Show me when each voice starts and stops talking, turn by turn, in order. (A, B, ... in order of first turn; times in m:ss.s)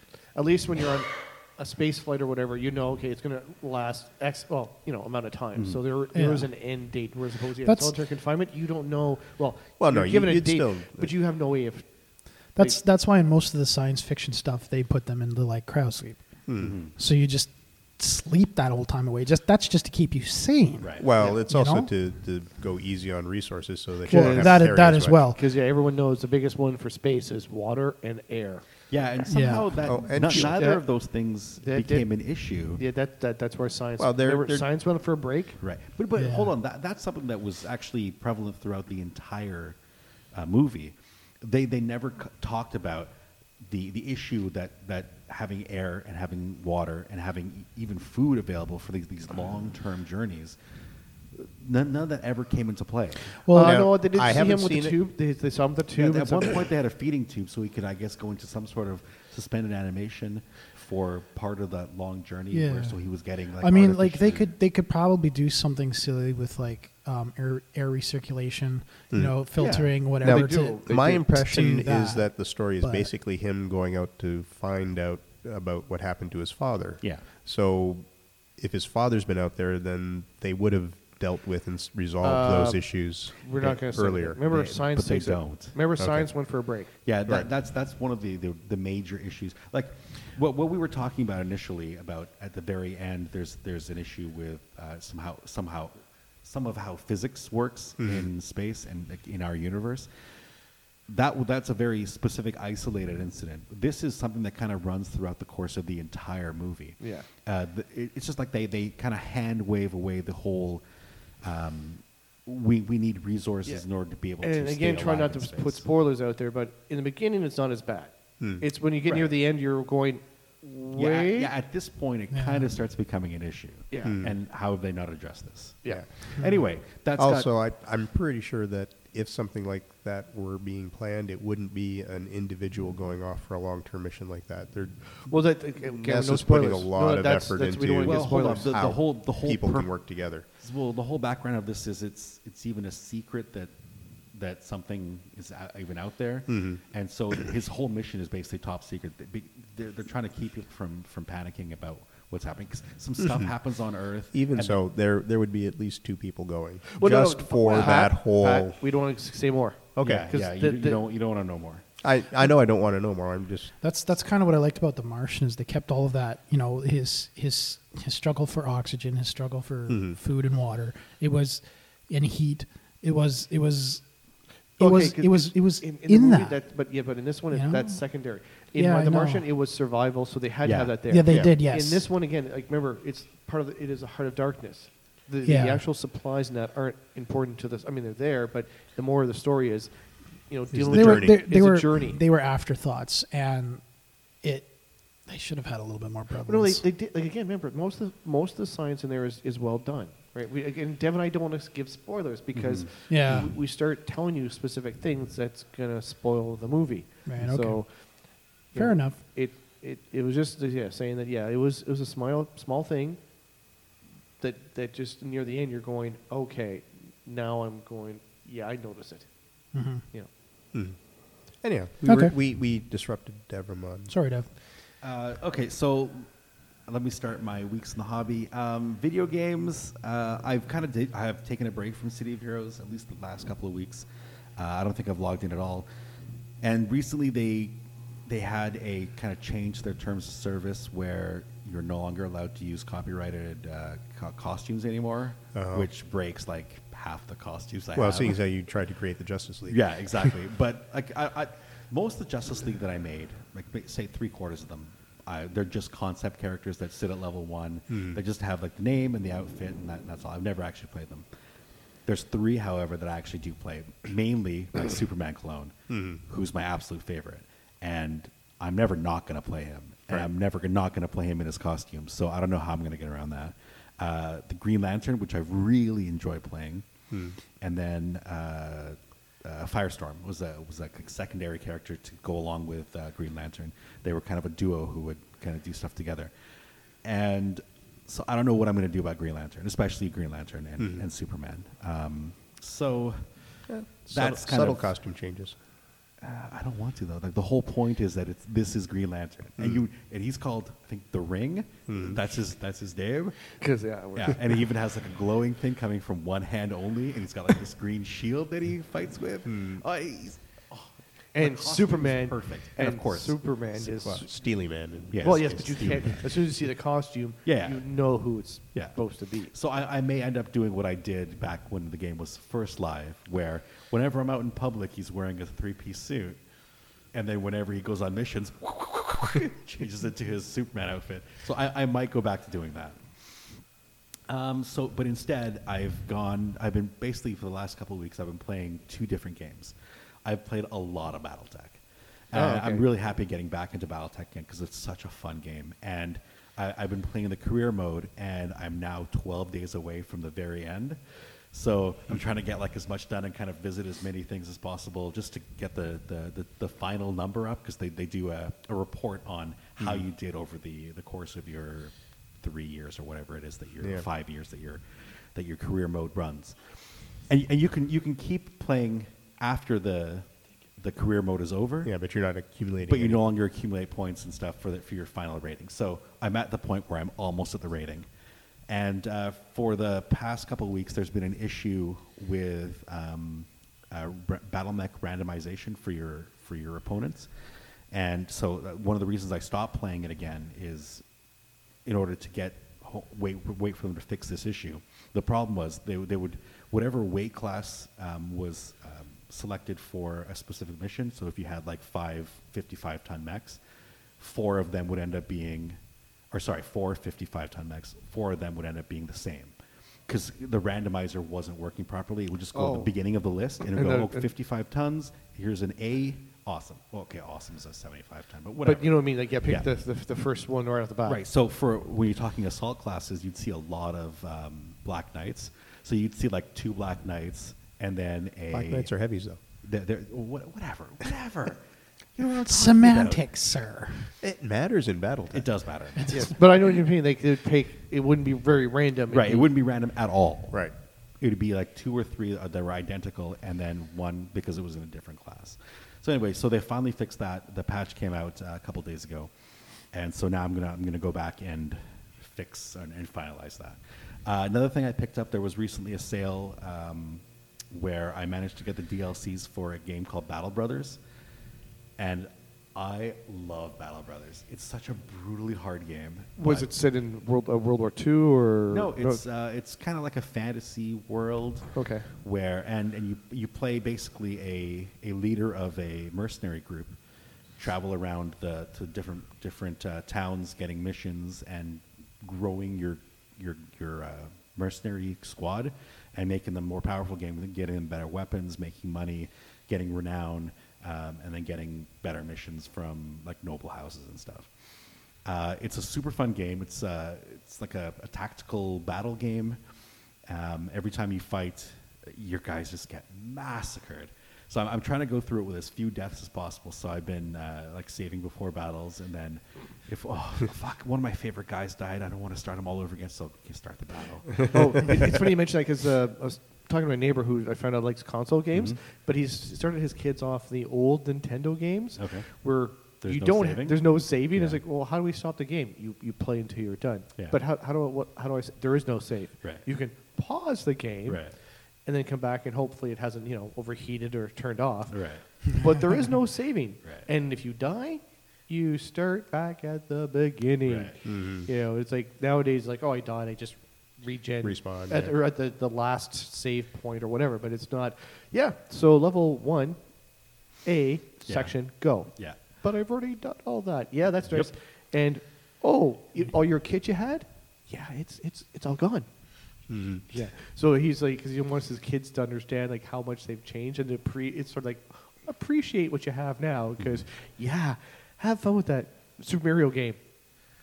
0:00.3-0:12.8 A
0:05.5-0:05.8 B
0:06.1-0:06.5 C
0:07.6-0:08.0 C
0:09.8-0:11.1 D
0:12.6-0:21.9 C
0:16.5-0:16.8 D
0:16.6-0:16.9 B
0:20.8-0:21.1 B
0:21.0-0:25.2 D
0:24.1-0:25.4 C
0:24.1-0:24.7 A
0:25.3-0:28.7 A
0:28.9-0:32.8 B
0:29.3-0:30.0 C
0:29.8-0:30.6 D
0:30.2-0:30.8 A
0:31.6-0:35.6 A
0:34.0-0:34.7 D
0:35.6-0:39.8 B
0:36.2-0:36.5 C
0:40.3-0:50.6 B
0:51.3-0:53.4 B
0:53.4-0:53.9 C
0:53.5-0:56.7 A
0:53.6-0:55.0 D
0:56.0-1:04.5 B
1:02.5-1:03.0 C
1:03.6-1:13.1 C
1:09.1-1:24.7 D
1:09.6-1:09.9 B
1:09.6-1:11.3 A
1:22.2-1:27.0 A
1:24.8-1:26.1 B
1:27.0-1:40.1 B
1:38.0-1:38.3 D
1:41.1-1:50.8 B
1:47.0-1:47.3 A
1:51.4-1:55.8 B
1:54.4-2:01.5 A
1:58.4-1:59.2 D
2:00.9-2:07.5 B
2:02.3-2:02.7 C
2:03.9-2:04.2 A
2:04.0-2:04.4 D
2:07.2-2:20.5 D
2:15.3-2:18.8 A
2:18.0-2:19.9 B
2:20.6-2:23.7 B
2:24.3-2:34.8 B
2:26.5-2:26.8 D
2:33.2-2:33.5 D
2:34.3-2:38.8 D
2:36.9-2:41.0 A
2:37.7-2:38.0 B
2:40.0-2:40.3 D
2:40.0-2:41.8 B
2:42.0-2:43.7 D
2:43.8-2:54.2 C
2:49.9-2:50.2 D
2:54.8-2:56.6 C
2:54.8-3:12.2 A
2:57.5-2:58.0 C
2:58.8-2:59.5 C
3:00.6-3:01.0 B
3:01.1-3:02.1 C
3:01.3-3:01.5 D
3:05.4-3:05.8 C
3:10.7-3:11.4 D
3:10.9-3:13.8 C
3:14.4-3:16.8 C
3:16.5-3:33.2 A
3:22.5-3:22.9 B
3:23.1-3:23.5 C
3:27.3-3:29.2 C
3:34.4-3:39.3 A
3:39.7-3:40.0 C
3:41.6-3:44.1 D
3:42.0-3:42.3 C
3:44.1-3:44.5 C
3:45.0-3:46.3 B
3:46.9-3:54.1 B
3:54.6-3:55.9 B
3:56.6-4:08.4 B
4:05.5-4:05.9 D
4:08.0-4:10.3 D
4:09.7-4:21.3 B
4:17.9-4:18.2 D
4:22.1-4:25.8 B
4:25.9-4:26.2 D
4:26.3-4:36.9 B
4:37.1-4:37.4 D
4:37.6-4:46.3 B
4:47.0-4:53.3 B
4:50.8-4:51.1 D
4:53.7-4:55.6 D
4:54.1-4:54.9 B
4:56.2-5:03.6 B
4:59.6-4:59.8 D
5:01.9-5:02.2 D
5:03.6-5:04.6 A
5:04.2-5:13.4 B
5:09.5-5:09.8 D
5:11.4-5:14.3 A
5:13.8-5:16.0 D
5:15.1-5:16.2 B
5:15.2-5:19.5 A
5:17.4-5:17.8 B
5:18.7-5:19.0 B
5:19.5-5:26.4 B
5:27.1-5:33.0 B
5:34.3-5:51.0 B
5:42.3-5:42.8 A
5:51.5-6:06.7 B
5:59.8-6:00.0 D
6:03.8-6:04.1 D
6:07.3-6:11.9 B
6:11.8-6:13.2 D
6:12.9-6:18.1 B
6:18.7-6:27.3 B
6:27.9-6:31.0 B
6:31.8-6:43.6 B
6:44.2-6:45.8 B
6:46.3-6:49.6 B
6:50.1-6:59.7 B
6:52.5-6:52.9 A
6:53.6-6:54.3 A
6:58.6-7:01.2 A
7:01.1-7:08.9 B
7:08.5-7:09.4 D
7:09.6-7:11.6 B
7:12.2-7:13.2 B
7:12.4-7:14.1 C
7:14.2-7:15.5 D
7:15.3-7:16.3 B
7:16.0-7:16.3 C
7:16.1-7:19.5 A
7:19.1-7:20.7 B
7:21.2-7:29.3 B
7:29.9-7:41.0 B
7:42.0-7:46.7 B
7:46.4-7:49.2 A
7:48.7-7:57.0 B
7:51.7-7:52.1 A
7:57.6-8:14.5 B
8:15.2-8:19.6 B
8:20.3-8:35.2 B
8:34.4-8:51.3 A
8:38.5-8:38.8 B
8:42.0-8:42.3 B
8:43.0-8:44.6 B
8:51.1-8:51.4 B
8:51.8-9:09.8 A
8:54.9-8:55.2 B
9:00.6-9:00.9 B
9:01.0-9:01.5 D
9:04.4-9:05.2 D
9:10.6-9:19.1 A
9:11.3-9:11.6 B
9:12.1-9:12.4 B
9:19.7-9:20.0 D
9:20.1-9:30.0 A